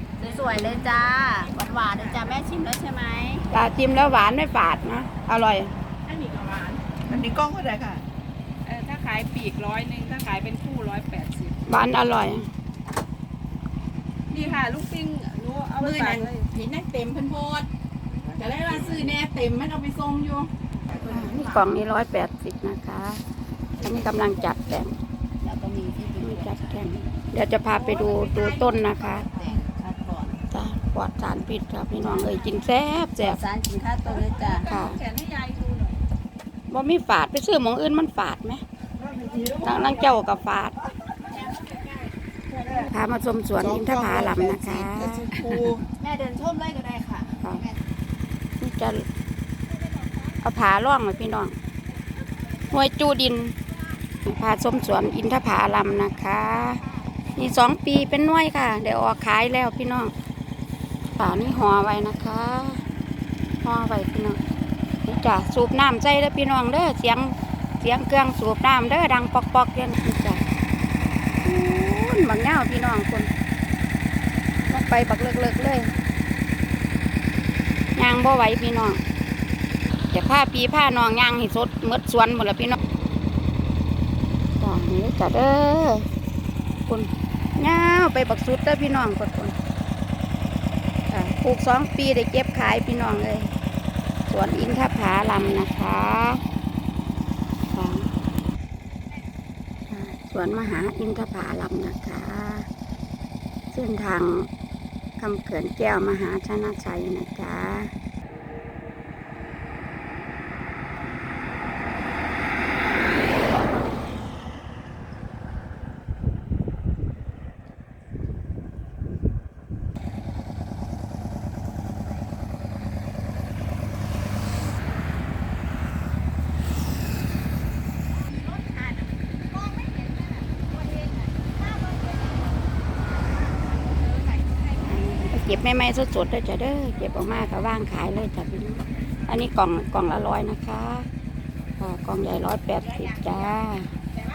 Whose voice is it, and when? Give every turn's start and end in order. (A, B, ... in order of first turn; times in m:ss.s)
0:00.2-0:03.5 A
0:01.4-0:02.3 B
0:03.5-0:05.7 C
0:06.1-0:07.0 B
0:07.1-0:08.0 D
0:08.6-0:11.6 B
0:11.7-0:12.5 C
0:14.3-0:16.5 B
0:15.8-0:17.6 D
0:16.0-0:16.3 A
0:18.4-0:20.4 D
0:18.7-0:19.2 B
0:20.9-0:21.5 B
0:21.0-0:23.2 C
0:23.8-0:25.0 C
0:25.4-0:26.8 A
0:26.2-0:29.3 C
0:27.8-0:29.6 B
0:29.3-0:30.4 A
0:30.5-0:33.4 C
0:32.0-0:32.4 A
0:33.2-0:34.7 A
0:34.3-0:36.0 B
0:34.7-0:35.0 C
0:36.7-0:38.6 C
0:39.6-0:40.8 C
0:42.8-0:45.7 C
0:43.6-0:45.8 D
0:46.0-0:47.8 A
0:48.6-0:49.0 C
0:50.4-0:51.6 C
0:52.7-0:53.5 C
0:54.2-0:56.8 C
0:57.4-1:00.1 C
1:01.2-1:02.8 C
1:03.6-1:04.4 C
1:05.1-1:10.4 C
1:11.4-1:13.3 C
1:14.7-1:15.9 C
1:18.0-1:19.0 C
1:20.1-1:22.8 C
1:24.6-1:26.1 C
1:26.9-1:29.5 C
1:31.1-1:33.5 C
1:34.3-1:36.4 C
1:37.7-1:38.0 C
1:39.9-1:42.7 C
1:43.7-1:44.5 C
1:45.2-1:47.9 C
2:11.0-2:11.5 A
2:14.2-2:14.8 B
2:14.8-2:21.1 C
2:21.8-2:23.9 C